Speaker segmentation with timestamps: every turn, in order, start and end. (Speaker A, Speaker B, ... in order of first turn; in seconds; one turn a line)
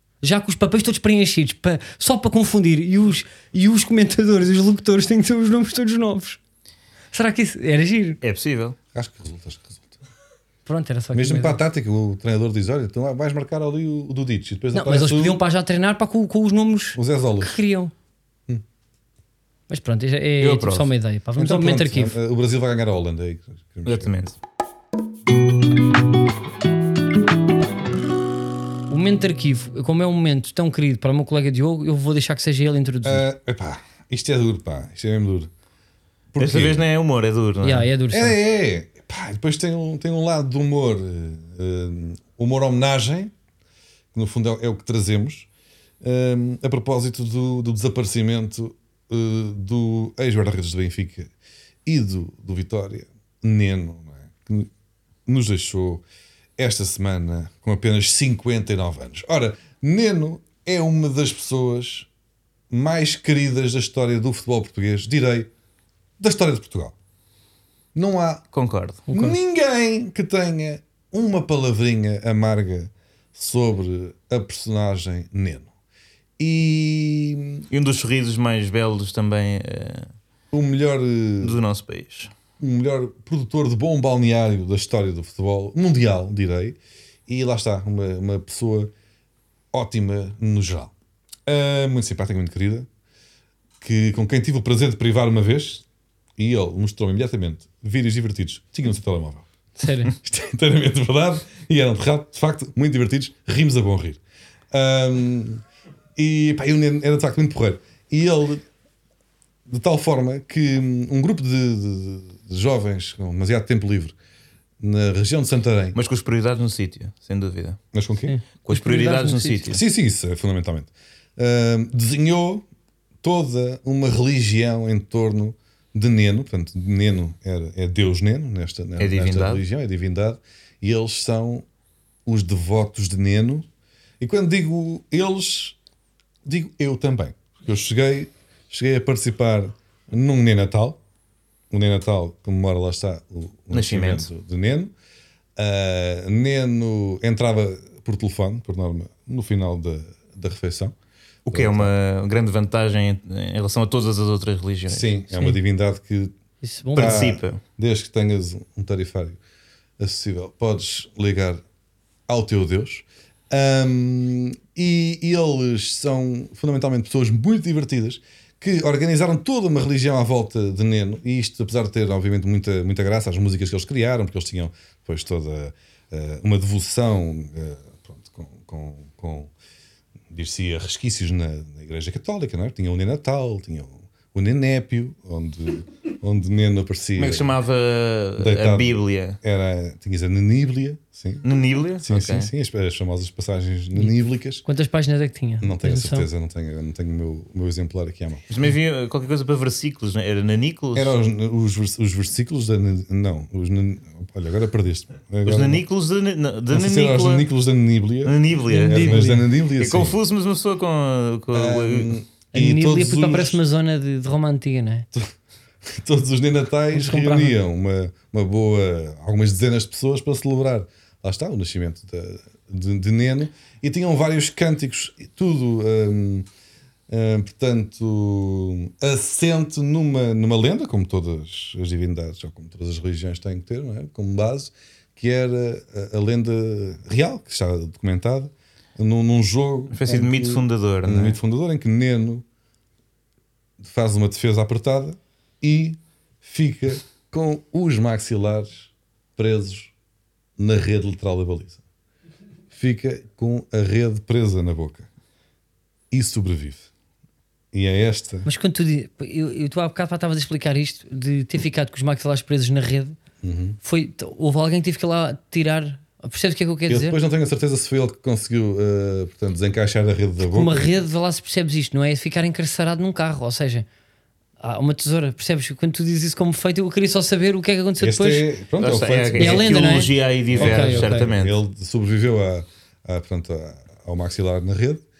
Speaker A: 0.2-6.4
Speaker A: 7.1-8.2
Speaker B: 8.2-8.8
Speaker C: 8.9-10.0
Speaker A: 10.7-11.6
Speaker C: 11.1-15.4
Speaker A: 14.7-17.9
Speaker C: 16.9-17.6
Speaker A: 19.7-22.1
Speaker B: 20.4-20.9
Speaker C: 21.4-24.1
Speaker B: 23.9-24.4
Speaker A: 28.9-33.3
Speaker C: 33.0-35.5
Speaker C: 36.3-36.8
Speaker B: 36.4-37.9
Speaker A: 37.6-38.4
Speaker C: 38.1-43.3
Speaker C: 44.1-45.5
Speaker C: 46.0-51.3
Speaker C: 51.9-54.7
Speaker C: 55.3-56.0
Speaker C: 56.6-62.1
Speaker C: 62.7-65.5
Speaker C: 66.2-67.0
Speaker C: 68.0-68.4
Speaker B: 68.5-69.0
Speaker A: 69.1-69.4
Speaker C: 69.1-75.7
Speaker C: 76.4-77.7
Speaker B: 77.7-80.1
Speaker C: 80.5-81.6
Speaker B: 81.4-82.3
Speaker C: 82.6-86.8
Speaker C: 87.3-88.9
Speaker C: 89.7-90.9
Speaker C: 91.5-92.9
Speaker C: 93.8-95.8
Speaker C: 96.4-99.5
Speaker A: 99.8-100.1
Speaker C: 100.2-104.2
Speaker C: 104.7-105.6
Speaker C: 106.2-108.7
Speaker C: 109.7-114.2
Speaker C: 114.8-116.0
Speaker B: 116.0-117.8
Speaker C: 117.9-118.3
Speaker A: 118.3-119.7
Speaker B: 118.6-119.8
Speaker C: 119.7-122.7
Speaker C: 123.2-131.7
Speaker B: 129.0-129.6
Speaker C: 132.3-133.7
Speaker C: 134.2-135.8
Speaker C: 136.4-141.0
Speaker C: 141.7-144.9
Speaker B: 143.7-144.3
Speaker C: 145.6-151.9
Speaker B: 151.5-155.1
Speaker C: 154.9-156.3
Speaker A: 156.6-157.3
Speaker B: 157.0-157.6
Speaker C: 157.0-159.4
Speaker C: 160.0-161.6
Speaker C: 162.3-179.5
Speaker C: 180.3-187.5
Speaker B: 187.2-189.4
Speaker C: 188.4-194.6
Speaker B: 191.4-192.5
Speaker A: 194.7-196.3
Speaker C: 195.6-198.4
Speaker B: 198.5-201.1
Speaker C: 200.9-205.8
Speaker B: 205.5-207.5
Speaker C: 206.7-210.2
Speaker B: 208.2-212.2
Speaker A: 208.7-209.5
Speaker C: 211.5-213.6
Speaker A: 212.5-215.1
Speaker C: 215.8-226.5
Speaker A: 216.9-217.6
Speaker C: 227.1-242.4
Speaker B: 239.9-241.4
Speaker C: 243.8-249.9
Speaker C: 250.6-251.8
Speaker C: 252.7-255.1
Speaker C: 256.1-256.9
Speaker C: 257.7-258.5
Speaker A: 258.4-263.2
Speaker C: 263.4-263.8
Speaker A: 263.8-267.2
Speaker C: 266.9-270.9
Speaker A: 270.5-273.9
Speaker A: 274.6-278.5
Speaker C: 278.0-279.8
Speaker B: 278.8-281.6
Speaker A: 279.4-281.3
Speaker C: 280.5-285.0